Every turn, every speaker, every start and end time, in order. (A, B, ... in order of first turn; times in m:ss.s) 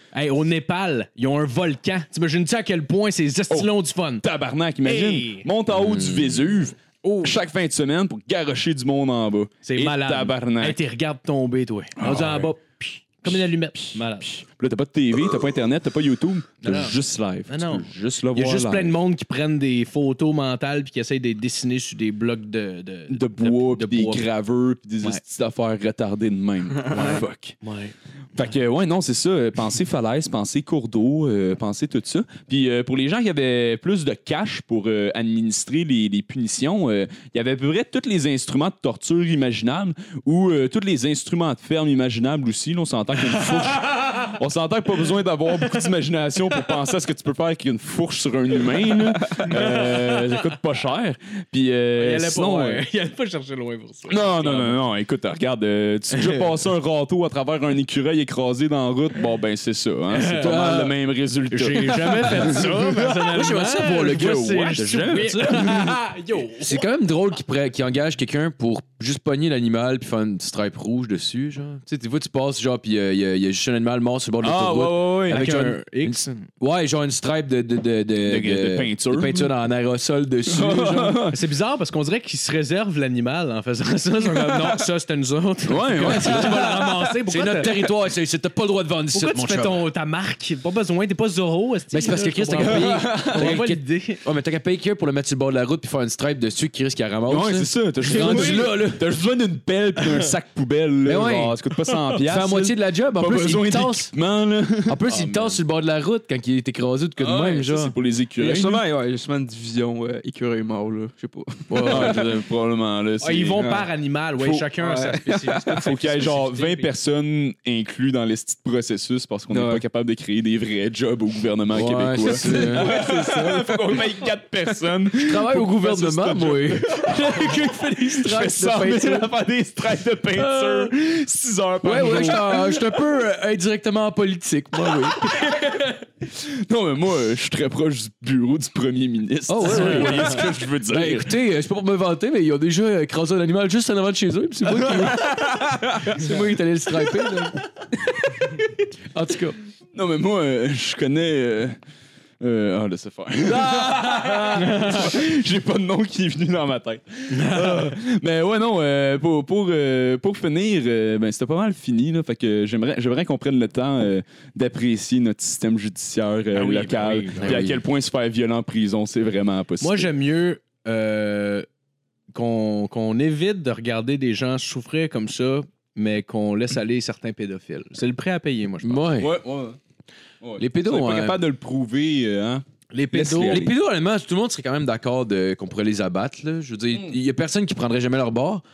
0:00.1-0:04.2 A
0:04.2-0:10.8 B
0:04.8-0:05.5 A
0:05.7-0:06.4 C
0:07.0-0:07.4 A
0:09.6-0:14.4 A
0:12.0-0:12.5 B
0:13.3-0:18.9 B
0:16.6-0:24.3 A
0:23.1-0:27.6 B
0:26.9-0:27.9 A
0:28.3-0:52.8 B
0:43.3-0:44.2 A
0:49.4-0:50.4 A
0:52.0-0:54.8 A
0:54.1-1:02.7 B
0:56.1-0:56.4 A
1:00.1-1:00.5 A
1:00.4-1:00.9 C
1:01.5-1:06.8 A
1:02.2-1:05.9 C
1:04.1-1:06.0 B
1:06.5-1:21.3 C
1:14.4-1:15.4 B
1:15.3-1:16.5 A
1:18.2-1:19.5 B
1:20.5-1:21.4 B
1:21.3-1:27.8 A
1:25.6-1:26.7 B
1:26.0-1:29.8 C
1:29.1-1:34.2 A
1:31.9-1:39.0 C
1:32.6-1:33.5 D
1:37.3-1:45.4 B
1:38.1-1:38.6 A
1:41.0-1:41.6 C
1:42.2-1:44.1 C
1:44.9-1:47.9 C
1:45.1-1:45.5 A
1:47.2-1:48.8 B
1:48.4-1:52.2 D
1:51.7-1:52.4 C
1:51.8-1:53.7 B
1:53.2-1:56.9 A
1:53.6-1:53.8 D
1:54.4-1:54.6 B
1:54.8-1:55.9 D
1:55.8-2:12.8 B
1:59.5-1:59.8 D
2:01.7-2:02.9 C
2:02.2-2:04.0 D
2:05.1-2:09.3 C
2:07.1-2:08.3 A
2:10.4-2:10.9 C
2:11.8-2:15.3 C
2:12.0-2:12.5 A
2:15.5-2:15.8 A
2:16.2-2:21.3 B
2:19.5-2:27.6 C
2:19.6-2:20.3 A
2:29.1-2:29.6 C
2:29.9-2:31.8 B
2:32.4-2:50.1 B
2:34.5-2:35.1 A
2:37.3-2:37.9 A
2:46.5-2:47.6 A
2:47.4-2:47.8 C
2:49.8-2:51.6 A
2:52.3-2:59.1 A
2:58.8-2:59.4 C
2:59.2-2:59.8 B
3:00.4-3:03.7 B
3:00.6-3:01.4 C
3:02.9-3:03.7 A
3:03.4-3:08.6 C